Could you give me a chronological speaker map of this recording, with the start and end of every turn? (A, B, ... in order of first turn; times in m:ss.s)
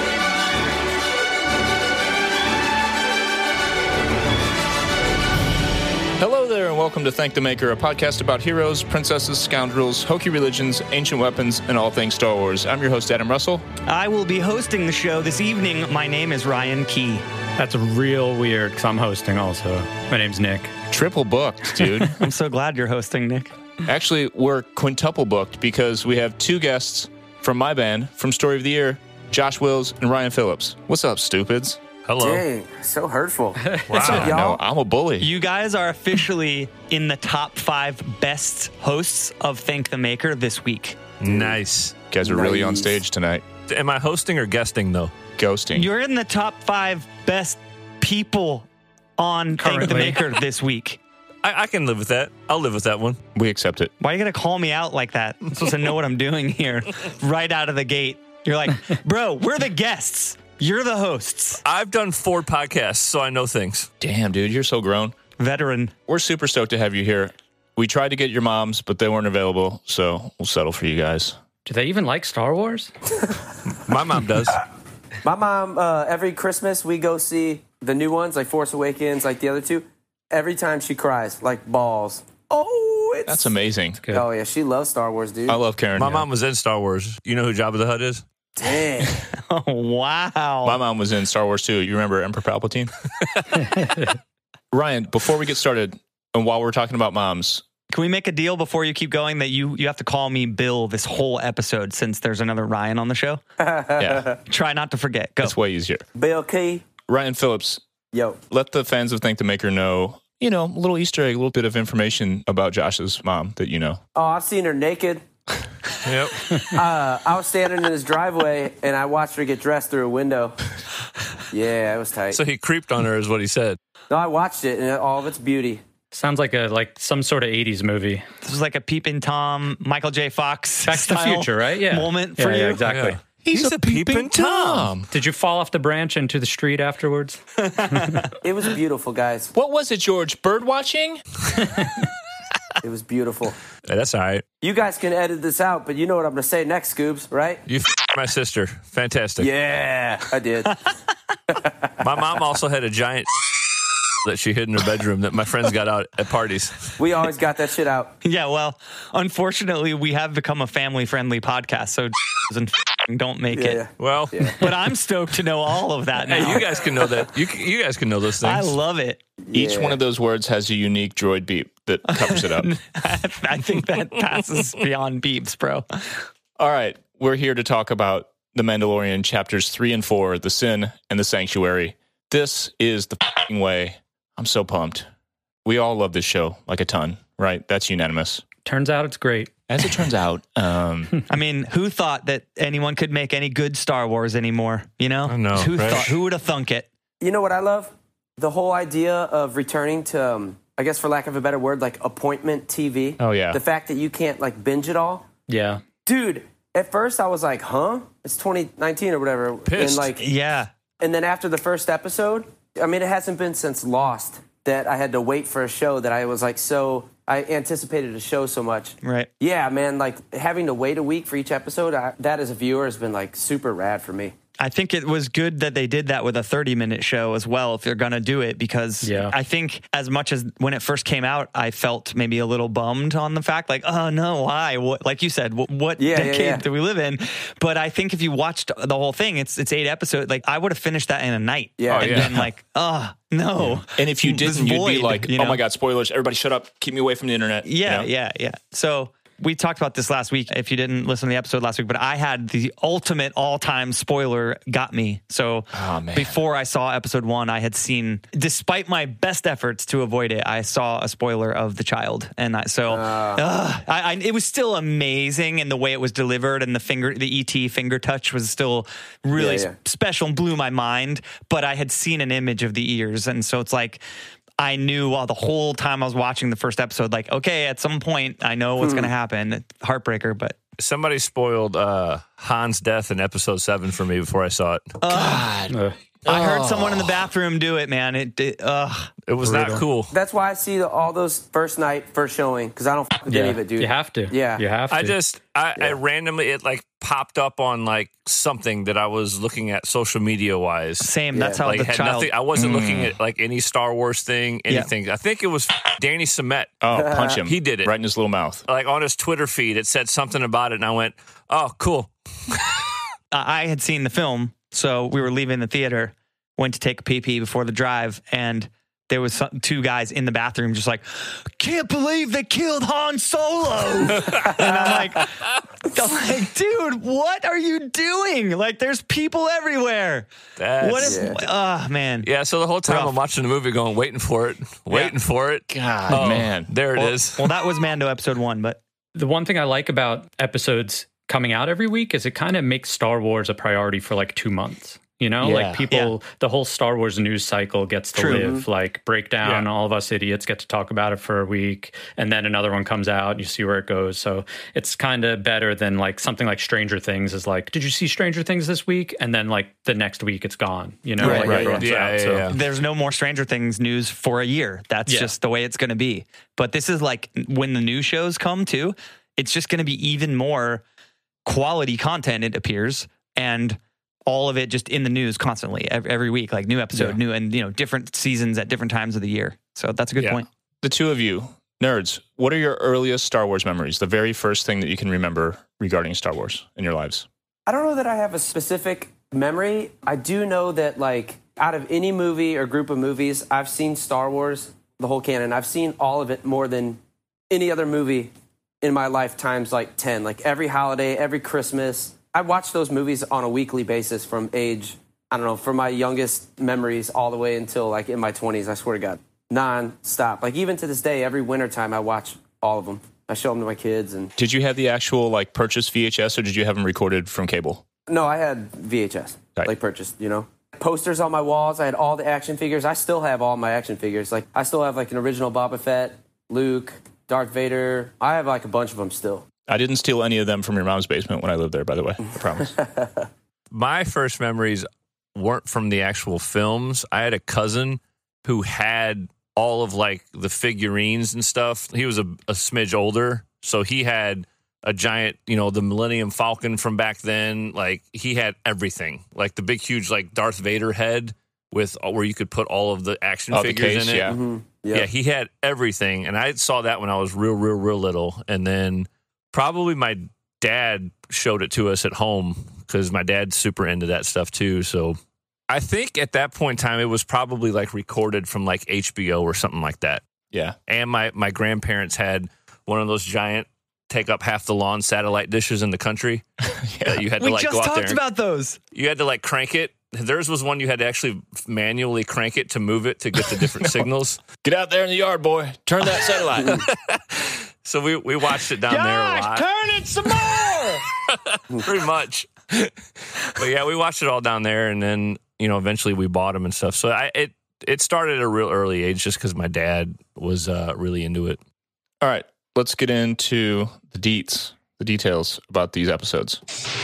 0:06.2-0:13.6 A
0:13.8-0:17.2 B
0:17.6-0:20.7 C
0:20.9-0:22.1 A
0:22.2-0:23.5 B
0:23.8-0:31.8 A
0:32.0-0:32.4 D
0:32.2-0:34.6 E
0:33.9-0:34.3 D
0:34.0-0:35.3 A
0:35.2-0:41.0 B
0:41.2-0:41.9 D
0:41.2-0:41.6 E
0:42.1-0:43.4 A
0:42.2-0:43.0 E
0:43.7-0:45.1 D
0:45.4-0:45.9 A
0:45.7-0:48.7 B
0:49.2-0:51.0 B
0:49.6-0:50.2 C
0:51.4-0:53.2 D
0:53.3-0:53.9 A
0:54.0-1:01.6 B
1:01.6-1:03.9 D
1:04.0-1:05.1 A
1:05.4-1:05.9 B
1:06.1-1:11.4 A
1:11.6-1:12.9 C
1:13.8-1:14.6 D
1:15.2-1:22.5 E
1:22.5-1:23.3 B
1:23.2-1:24.0 A
1:24.1-1:25.6 E
1:25.5-1:26.2 A
1:26.0-1:28.2 D
1:28.6-1:29.3 E
1:29.5-1:30.8 B
1:30.6-1:32.9 A
1:33.7-1:34.1 C
1:34.7-1:37.6 A
1:37.9-1:43.4 B
1:43.6-1:44.4 E
1:44.0-1:44.3 A
1:44.5-1:45.5 B
1:45.4-1:46.0 A
1:46.1-1:46.8 E
1:47.1-1:47.8 A
1:48.1-1:48.4 E
1:48.5-1:54.0 A
1:54.1-1:55.2 E
1:56.0-1:56.5 D
1:56.7-2:00.6 E
2:01.5-2:02.4 E
2:02.3-2:03.8 D
2:04.1-2:05.8 E
2:06.1-2:08.2 C
2:08.4-2:12.8 B
2:10.8-2:13.2 C
2:12.8-2:14.9 D
2:13.4-2:15.1 A
2:15.1-2:18.3 C
2:17.6-2:18.2 B
2:18.4-2:19.5 E
2:19.5-2:21.2 A
2:22.8-2:23.6 E
2:23.9-2:24.4 D
2:24.6-2:27.6 E
2:27.7-2:29.5 D
2:29.4-2:30.8 E
2:31.5-2:31.9 E
2:32.0-2:33.3 D
2:34.2-2:37.0 D
2:37.0-2:38.1 E
2:38.2-2:43.8 B
2:43.5-2:44.6 E
2:44.0-2:44.5 D
2:44.6-2:46.7 B
2:46.3-2:48.7 D
2:48.4-2:49.2 B
2:49.4-2:50.0 E
2:49.5-2:52.7 A
2:52.1-2:56.2 B
2:56.6-3:05.0 A
3:05.6-3:08.4 A
3:08.6-3:09.5 C
3:09.7-3:11.1 A
3:11.3-3:16.9 B
3:15.3-3:16.0 D
3:17.2-3:25.2 E
3:23.2-3:23.6 A
3:25.5-3:25.8 C
3:26.0-3:30.2 E
3:29.6-3:30.1 D
3:30.2-3:30.7 B
3:31.0-3:44.3 E
3:39.0-3:39.3 B
3:44.6-4:05.6 B
3:49.0-3:49.3 C
3:56.0-3:56.6 E
4:01.8-4:02.2 E
4:01.9-4:02.4 D
4:03.9-4:08.1 A
4:07.6-4:34.0 B
4:15.7-4:16.4 A
4:22.9-4:23.4 E
4:29.4-4:29.7 E
4:34.6-4:40.6 B
4:38.8-4:39.1 E
4:40.8-4:44.8 D
4:45.0-4:45.5 B
4:45.1-4:47.3 A
4:45.7-4:46.0 C
4:46.3-4:49.1 B
4:49.3-4:50.1 D
4:49.5-4:49.8 C
4:50.1-4:54.6 E
4:53.3-4:55.2 C
4:54.9-5:01.1 D
5:01.0-5:02.3 B
5:01.3-5:01.8 E
5:01.6-5:06.8 D
5:02.6-5:03.1 A
5:06.8-5:08.6 A
5:07.0-5:07.4 E
5:07.4-5:07.9 D
5:08.7-5:12.7 D
5:13.3-5:30.3 B
5:24.4-5:25.0 E
5:30.6-5:31.2 D
5:30.8-5:32.3 B
5:31.0-5:31.4 E
5:32.2-5:37.4 D
5:32.8-5:33.1 B
5:35.7-5:36.7 A
5:36.9-5:38.8 B
5:39.1-6:02.6 C
5:45.4-5:45.8 A
5:48.1-5:48.5 B
5:48.3-5:48.6 E
6:01.2-6:01.9 B
6:01.2-6:01.8 A
6:01.2-6:02.6 D
6:02.5-6:10.8 B
6:05.1-6:05.3 C
6:11.4-6:20.4 B
6:20.2-6:20.4 D
6:20.8-6:27.2 A
6:27.6-6:54.3 E
6:54.4-6:57.8 A
6:58.1-7:09.4 E
7:09.7-7:12.7 A
7:12.6-7:13.3 E
7:13.7-7:34.3 D
7:33.5-7:34.4 A
7:34.2-7:35.1 E
7:34.9-7:45.2 D
7:45.7-7:50.2 D
7:50.5-7:50.8 A
7:50.9-7:56.4 D
7:56.7-7:57.2 A
7:57.0-7:58.2 D
7:57.4-7:58.8 B
7:58.9-8:04.4 D
8:03.6-8:04.0 A
8:04.6-8:06.8 A
8:06.7-8:12.9 D
8:08.9-8:10.4 B
8:13.5-8:21.6 D
8:22.2-8:26.6 A